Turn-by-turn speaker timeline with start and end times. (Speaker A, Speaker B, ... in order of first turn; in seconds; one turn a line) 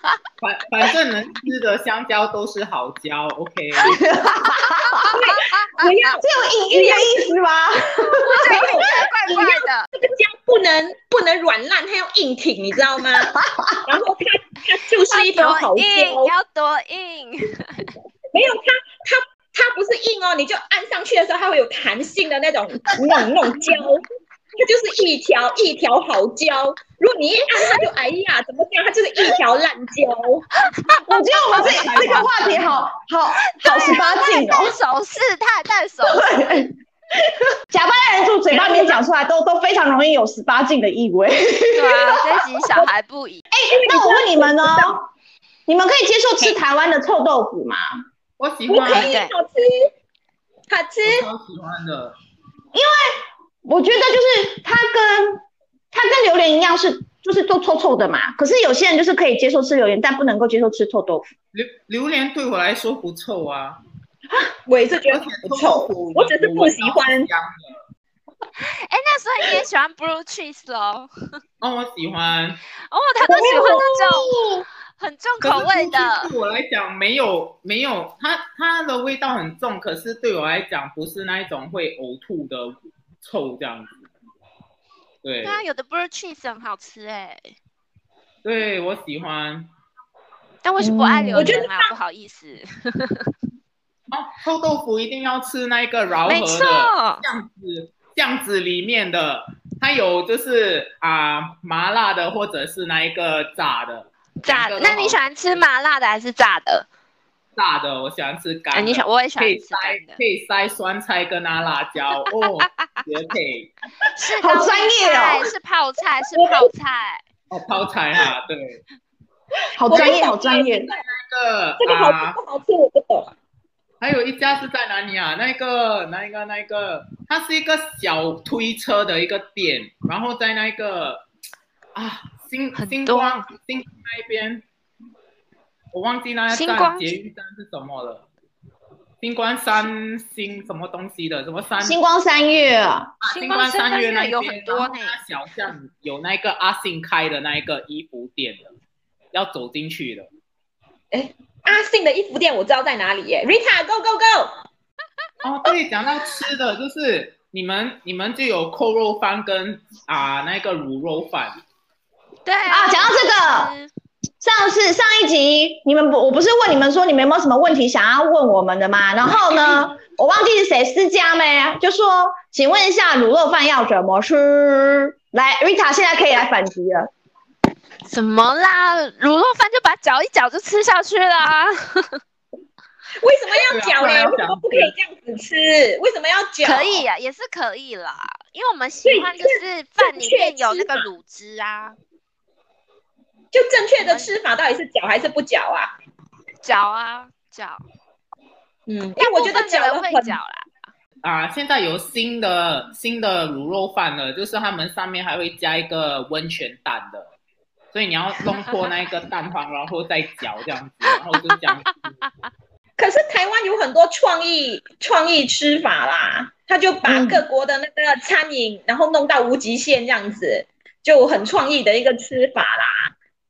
Speaker A: 0.4-4.1
Speaker B: 3.9-5.2
Speaker C: 4.5-5.9
Speaker D: 5.0-7.2
Speaker B: 6.2-8.9
Speaker C: 8.1-9.9
Speaker D: 8.4-13.3
Speaker B: 13.2-13.8
Speaker D: 13.8-16.3
Speaker C: 15.1-17.9
Speaker D: 18.3-24.0
Speaker D: 24.6-30.4
Speaker B: 31.0-34.8
Speaker C: 31.5-32.3
Speaker A: 31.5-32.8
Speaker C: 33.5-36.4
Speaker B: 36.0-36.7
Speaker B: 37.7-42.5
Speaker D: 38.5-39.0
Speaker C: 41.7-43.4
Speaker B: 43.5-45.0
Speaker D: 43.7-45.0
Speaker B: 45.7-47.9
Speaker A: 48.4-49.1
Speaker D: 48.7-49.9
Speaker C: 48.9-49.3
Speaker D: 50.7-51.3
Speaker A: 51.0-52.1
Speaker B: 52.7-61.2
Speaker A: 61.5-63.8
Speaker D: 64.7-67.3
Speaker A: 65.1-67.8
Speaker C: 68.6-71.1
Speaker A: 71.6-72.6
Speaker C: 72.9-76.3
Speaker D: 73.3-74.3
Speaker A: 75.4-84.0
Speaker A: 85.2-85.6
Speaker C: 85.4-87.5
Speaker A: 88.4-89.7
Speaker C: 90.6-93.3
Speaker B: 90.8-91.6
Speaker D: 91.3-91.9
Speaker A: 94.1-105.2
Speaker C: 96.2-97.2
Speaker C: 104.4-106.8
Speaker A: 107.5-113.7
Speaker C: 108.7-110.2
Speaker C: 114.2-117.2
Speaker B: 114.3-115.5
Speaker D: 116.3-116.7
Speaker A: 117.5-118.8
Speaker B: 119.8-120.9
Speaker D: 119.8-121.0
Speaker A: 119.9-122.4
Speaker D: 121.8-123.3
Speaker A: 124.0-131.2
Speaker A: 131.9-134.6
Speaker C: 132.7-133.4
Speaker A: 135.9-138.2
Speaker C: 136.5-137.1
Speaker A: 139.2-142.0
Speaker B: 141.8-143.1
Speaker A: 143.2-148.7
Speaker C: 143.2-145.2
Speaker A: 149.3-150.3
Speaker D: 151.1-154.5
Speaker A: 155.4-161.6
Speaker C: 162.4-163.9
Speaker B: 162.7-163.7
Speaker B: 164.4-177.1
Speaker C: 178.1-182.2
Speaker D: 183.2-187.0
Speaker A: 183.7-184.9
Speaker C: 186.6-191.9
Speaker D: 189.0-191.1
Speaker D: 193.5-195.9
Speaker C: 194.0-194.3
Speaker C: 196.6-197.8
Speaker D: 198.9-200.3
Speaker C: 199.2-200.7
Speaker A: 201.2-207.3
Speaker A: 207.9-212.2
Speaker D: 213.0-223.1
Speaker B: 217.0-217.4